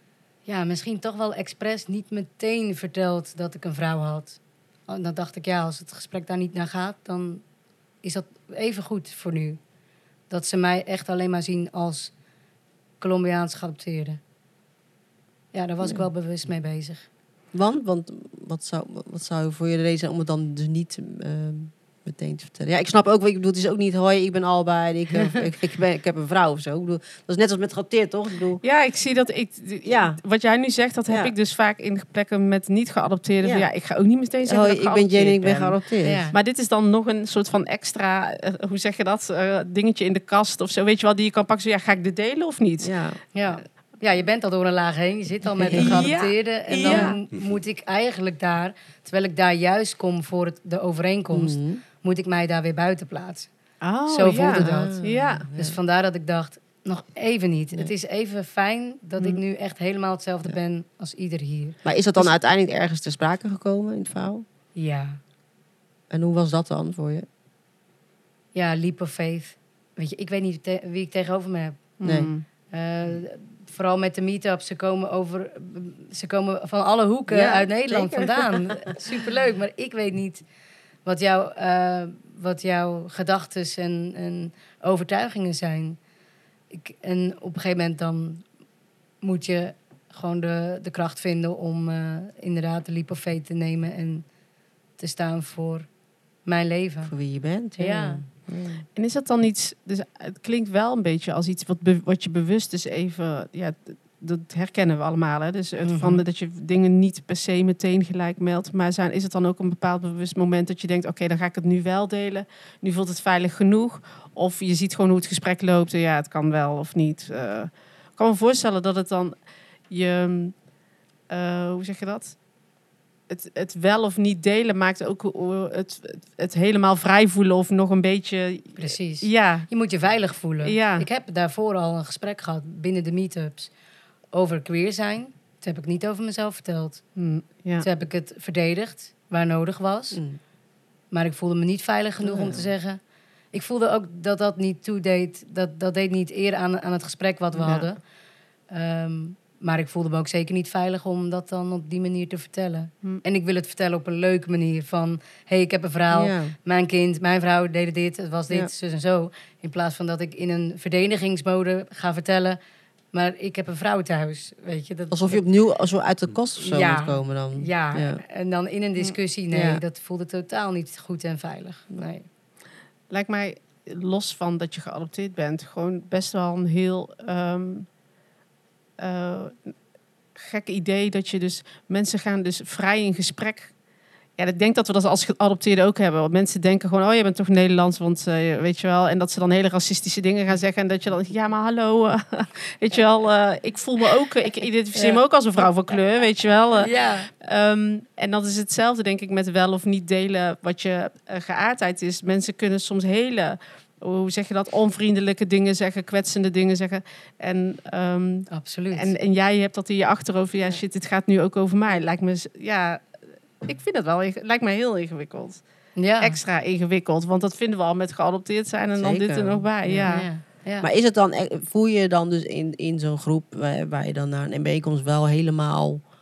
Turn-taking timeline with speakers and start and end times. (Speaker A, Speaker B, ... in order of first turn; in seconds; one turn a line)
Speaker A: 0.5-7.4
Speaker A: 8.0-9.6
Speaker A: 10.3-12.1
Speaker A: 13.0-14.2
Speaker A: 15.5-17.1
Speaker B: 17.5-28.6
Speaker C: 28.6-43.0
Speaker B: 29.9-30.2
Speaker B: 31.1-31.3
Speaker B: 33.4-33.7
Speaker B: 34.4-36.3
Speaker A: 36.0-36.4
Speaker B: 42.8-43.2
Speaker A: 43.4-53.5
Speaker B: 45.6-46.1
Speaker C: 45.7-47.2
Speaker B: 46.8-47.1
Speaker B: 51.3-51.8
Speaker C: 53.8-55.5
Speaker A: 54.1-55.0
Speaker B: 54.5-55.8
Speaker A: 55.5-61.8
Speaker B: 61.9-64.5
Speaker A: 64.8-65.2
Speaker B: 66.1-67.3
Speaker A: 68.5-72.0
Speaker C: 72.0-72.5
Speaker B: 72.0-72.3
Speaker A: 72.7-80.4
Speaker B: 77.3-79.0
Speaker A: 81.0-86.0
Speaker A: 86.7-88.5
Speaker A: 89.2-94.3
Speaker A: 95.0-95.9
Speaker A: 96.5-97.1
Speaker B: 97.0-98.8
Speaker A: 97.8-98.2
Speaker C: 99.0-120.6
Speaker A: 105.8-106.2
Speaker C: 121.3-122.4
Speaker C: 123.3-129.7
Speaker A: 128.8-133.7
Speaker C: 130.6-131.1
Speaker A: 134.3-137.0
Speaker C: 137.2-137.9
Speaker A: 137.8-140.2
Speaker B: 140.1-140.4
Speaker A: 141.1-143.0
Speaker B: 142.2-142.7
Speaker A: 143.5-148.0
Speaker A: 148.7-162.6
Speaker B: 156.1-156.5
Speaker A: 163.1-165.4
Speaker B: 165.1-168.2
Speaker A: 166.6-172.3
Speaker B: 169.0-169.8
Speaker C: 173.1-177.9
Speaker C: 179.0-179.8
Speaker C: 180.3-183.7
Speaker C: 184.4-215.6
Speaker A: 194.9-195.7
Speaker A: 196.8-197.3
Speaker A: 208.5-209.1
Speaker A: 216.0-216.4
Speaker C: 216.2-220.3
Speaker B: 219.0-220.1
Speaker A: 220.0-220.9
Speaker B: 220.8-226.0